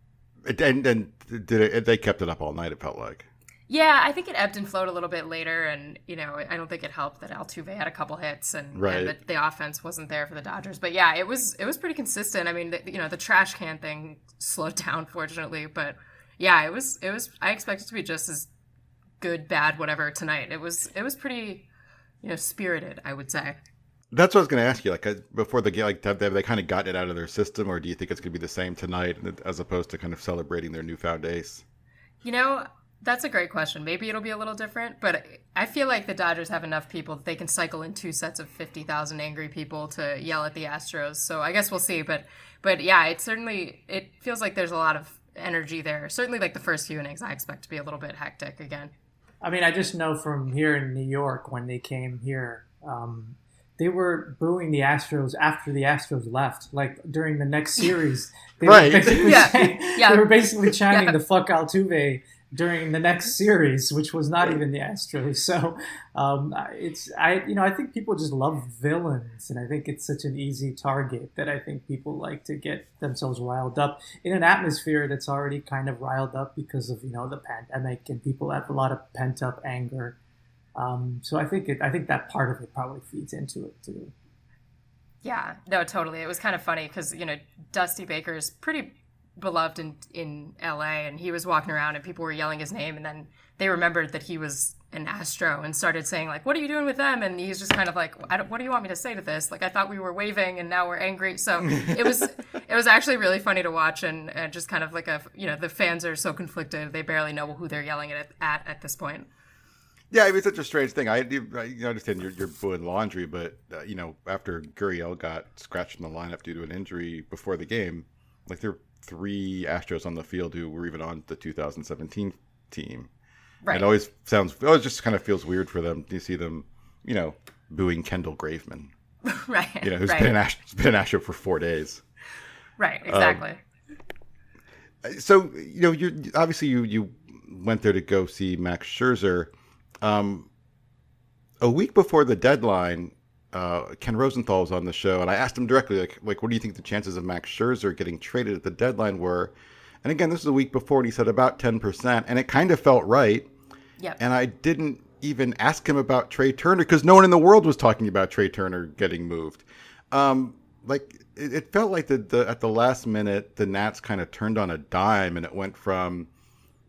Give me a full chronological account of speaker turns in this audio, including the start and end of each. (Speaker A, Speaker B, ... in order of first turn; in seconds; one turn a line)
Speaker A: 0.4-3.3
Speaker B: 3.7-18.5
Speaker A: 8.7-9.2
Speaker B: 19.2-21.7
Speaker B: 22.2-23.6
Speaker A: 24.1-31.6
Speaker B: 32.2-48.9
Speaker C: 49.4-80.2
Speaker A: 58.6-59.5
Speaker B: 59.1-60.3
Speaker B: 60.9-61.1
Speaker C: 80.8-84.1
Speaker B: 85.2-109.3
Speaker A: 110.1-123.1
Speaker A: 123.7-128.9
Speaker B: 129.3-130.3
Speaker A: 129.8-132.0
Speaker B: 132.8-133.6
Speaker A: 133.1-133.4
Speaker A: 135.0-139.5
Speaker A: 140.0-140.5
Speaker A: 141.6-153.5
Speaker A: 154.2-166.3